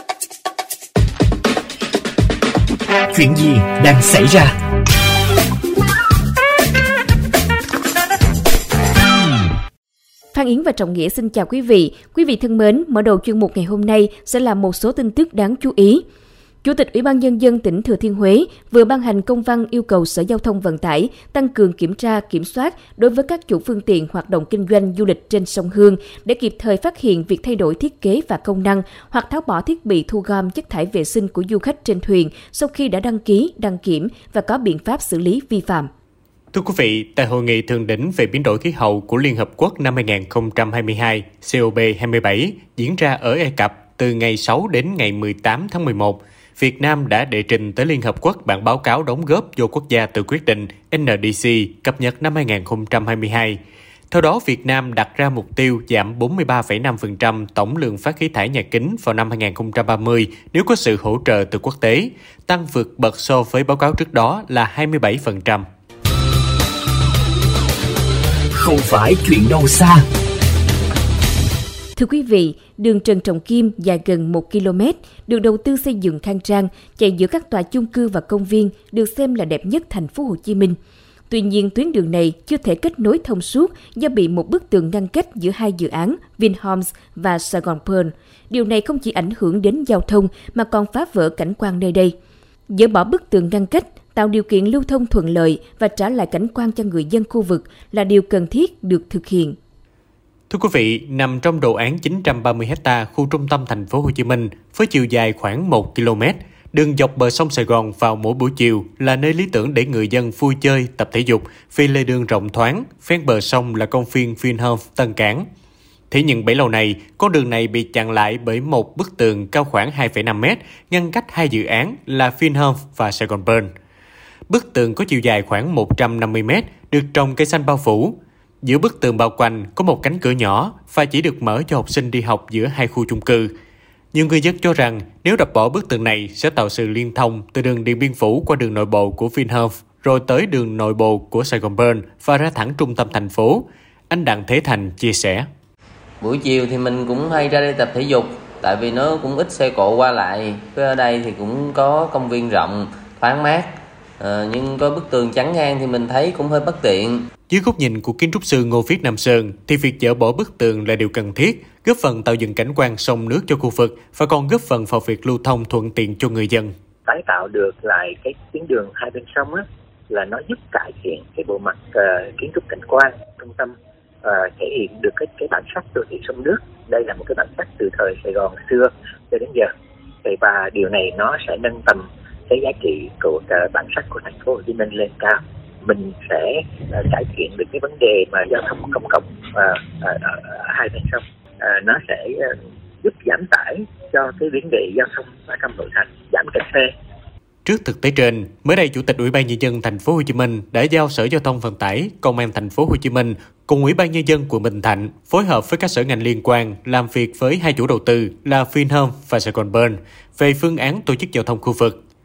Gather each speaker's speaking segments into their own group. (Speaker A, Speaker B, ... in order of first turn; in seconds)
Speaker A: 3.1-4.5, 68.5-70.0
Speaker B: 10.3-16.0, 16.6-35.9, 72.0-80.8, 81.3-92.1, 92.7-99.5
Speaker C: 36.5-53.6, 54.1-65.6, 100.5-115.5, 116.1-123.7, 124.5-133.5, 134.1-145.5, 157.5-166.7, 197.7-212.0
Speaker D: 146.2-157.2
Speaker E: 167.1-179.7, 180.2-196.9